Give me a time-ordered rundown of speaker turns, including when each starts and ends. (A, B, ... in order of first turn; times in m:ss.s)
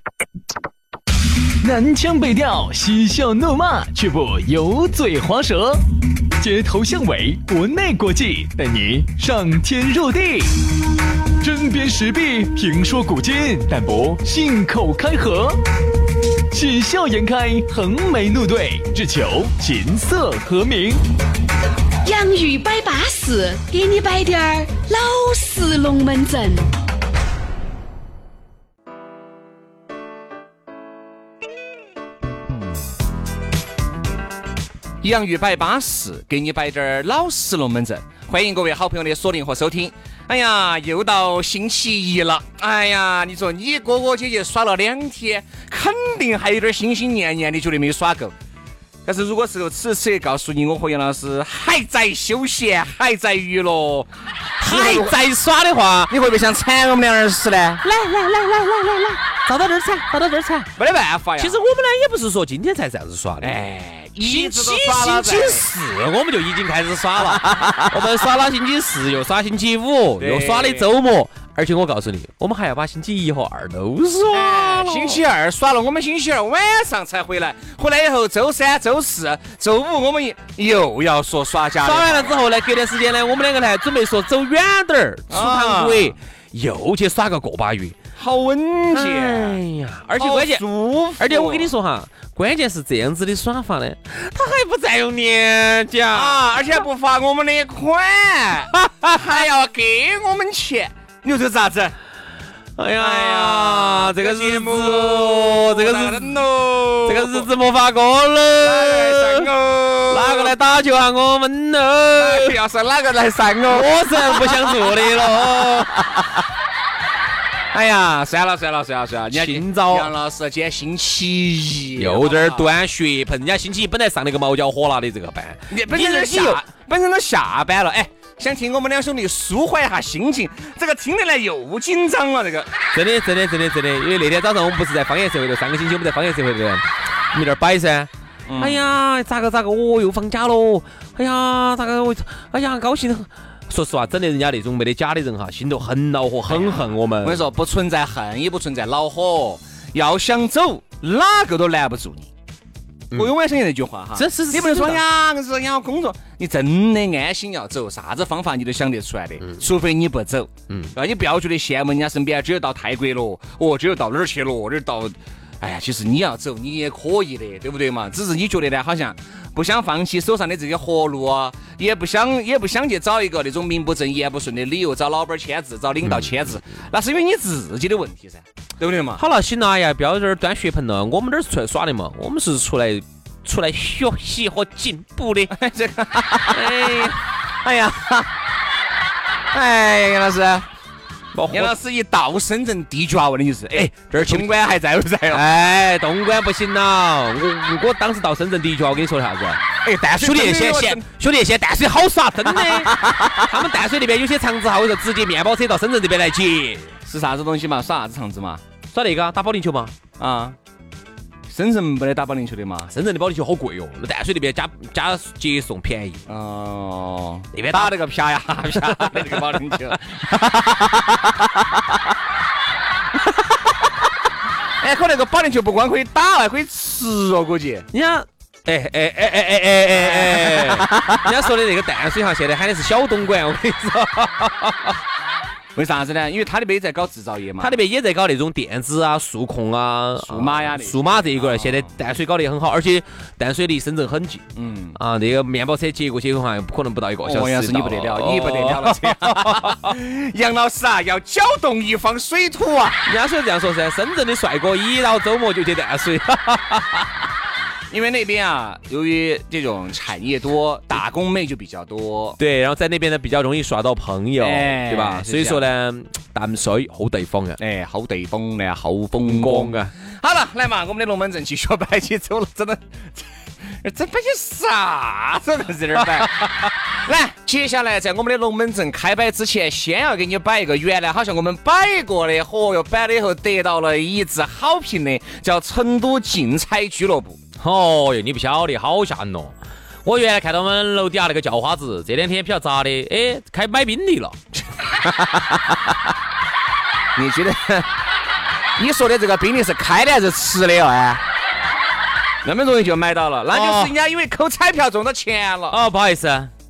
0:01.6-0:05.8 A
0:06.4-0:10.6 A
0:11.4-0:15.6 A
0:16.5-0:21.0 A
0:22.0-0:26.7 B
0:35.0-0:48.3 C
0:49.0-0:55.2 C
0:54.6-0:56.1 D
0:56.1-0:57.8 C
0:57.8-1:00.7 D
1:00.8-1:01.6 C
1:01.4-1:03.6 D
1:03.4-1:05.7 C
1:04.2-1:15.2 D
1:07.2-1:08.0 C
1:10.2-1:10.9 C
1:14.3-1:22.4 C
1:21.8-1:28.0 D
1:25.3-1:26.1 C
1:28.2-1:29.6 C
1:28.9-1:30.6 D
1:30.2-1:31.7 C
1:31.2-1:36.8 D
1:36.1-1:41.9 C
1:38.8-1:39.2 D
1:42.8-1:46.4 D
1:43.0-1:47.4 C
1:47.0-1:49.5 D
1:48.6-1:50.5 C
1:50.1-1:52.5 D
1:52.1-1:56.0 C
1:53.7-1:56.2 D
1:57.7-2:02.7 C
1:59.3-2:00.1 D
2:02.0-2:06.6 D
2:05.7-2:12.7 C
2:12.9-2:27.4 D
2:18.5-2:18.8 C
2:26.5-2:32.3 C
2:33.1-2:59.2 C
2:34.1-2:35.0 D
2:56.0-2:56.3 D
2:59.2-3:05.5 D
3:05.5-3:08.3 C
3:06.5-3:07.2 D
3:09.5-3:10.7 C
3:11.3-3:11.8 D
3:11.5-3:15.4 C
3:13.7-3:14.5 D
3:15.3-3:26.9 D
3:19.8-3:21.0 C
3:22.5-3:23.5 C
3:27.0-3:28.6 C
3:28.9-3:29.9 D
3:30.2-3:30.6 C
3:31.5-3:32.9 C
3:32.9-3:36.2 D
3:36.3-3:41.0 C
3:37.5-3:38.1 D
3:38.6-3:40.0 D
3:44.8-3:47.9 C
3:47.9-3:55.0 D
3:49.9-3:51.3 C
3:55.8-3:57.8 C
3:57.6-4:09.9 D
4:00.2-4:01.9 C
4:04.6-4:05.0 C
4:07.2-4:13.0 C
4:13.0-4:17.2 D
4:17.9-4:22.4 C
4:22.4-4:27.6 D
4:24.4-4:25.6 C
4:27.6-4:47.4 C
4:29.2-4:29.9 D
4:36.0-4:36.7 D
4:47.6-4:54.4 D
4:54.9-4:55.6 C
4:57.2-4:57.9 C
4:58.8-5:01.2 C
5:02.4-5:05.8 C
5:03.5-5:03.9 D
5:05.7-5:06.5 D